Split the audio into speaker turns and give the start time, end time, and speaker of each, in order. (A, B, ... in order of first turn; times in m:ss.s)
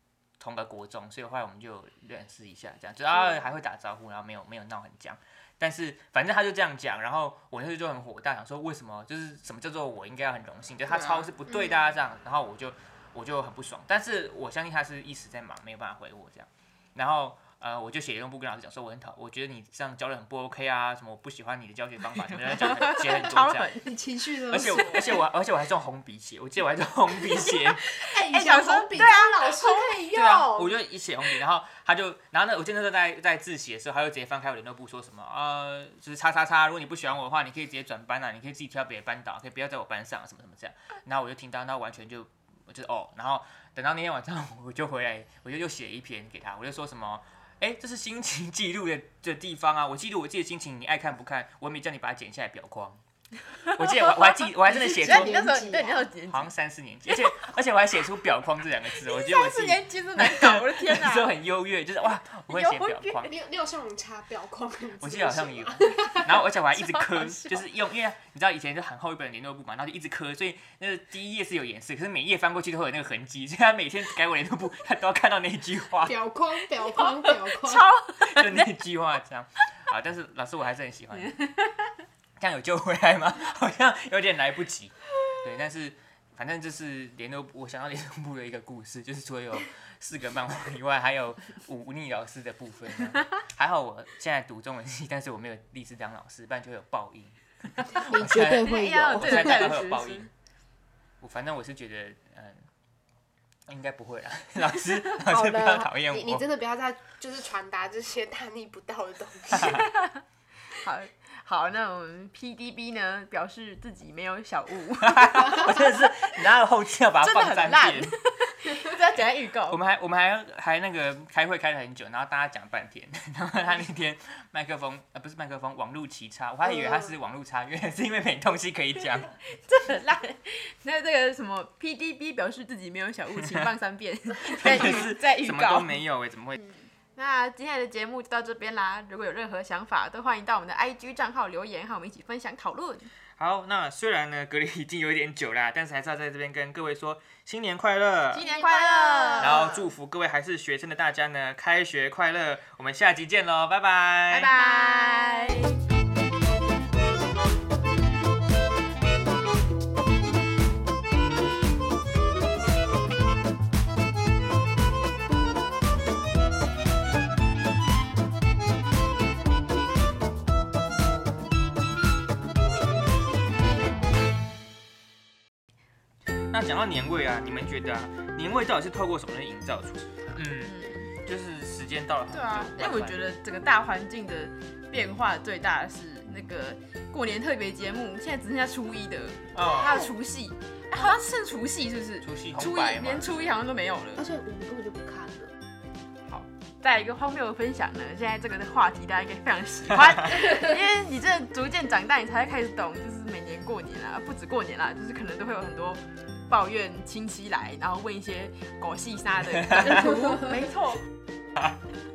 0:00.4-0:23.7 A
0:10.9-0:11.9 B
0:22.5-0:24.0 C
0:23.8-0:25.2 B
0:24.5-0:27.8 A
0:24.6-0:25.2 C
0:27.5-0:30.5 C
0:28.0-0:30.7 B
0:30.1-0:53.0 A
0:53.6-0:55.4 A
0:53.8-0:56.5 C
0:54.9-0:56.1 B
0:56.3-1:03.3 A
0:59.0-1:01.3 C
1:02.5-1:03.3 C
1:03.3-1:06.4 B
1:05.0-1:16.2 A
1:06.8-1:07.6 C
1:16.0-1:17.9 B
1:17.0-1:18.7 C
1:18.2-1:21.4 A
1:22.4-1:40.3 A
1:38.1-1:39.8 B
1:38.4-1:40.3 C
1:41.2-1:42.6 A
1:43.7-1:46.4 A
1:45.2-1:49.9 B
1:49.6-1:50.2 C
1:50.8-1:56.1 C
1:55.0-1:58.2 A
1:57.2-1:59.8 C
1:59.7-2:09.3 A
2:06.7-2:07.1 B
2:09.5-2:16.0 C
2:14.6-2:16.6 A
2:17.2-2:23.1 C
2:23.4-2:28.4 A
2:28.3-2:29.6 C
2:28.4-2:29.9 B
2:29.4-2:34.5 A
2:34.3-2:35.8 C
2:56.5-3:03.2 A
3:00.6-3:01.1 C
3:02.3-3:14.3 C
3:09.5-3:10.0 A
3:12.2-3:13.5 A
3:14.2-3:15.5 B
3:16.3-3:31.0 C
3:29.7-3:30.1 A
3:30.2-3:30.5 B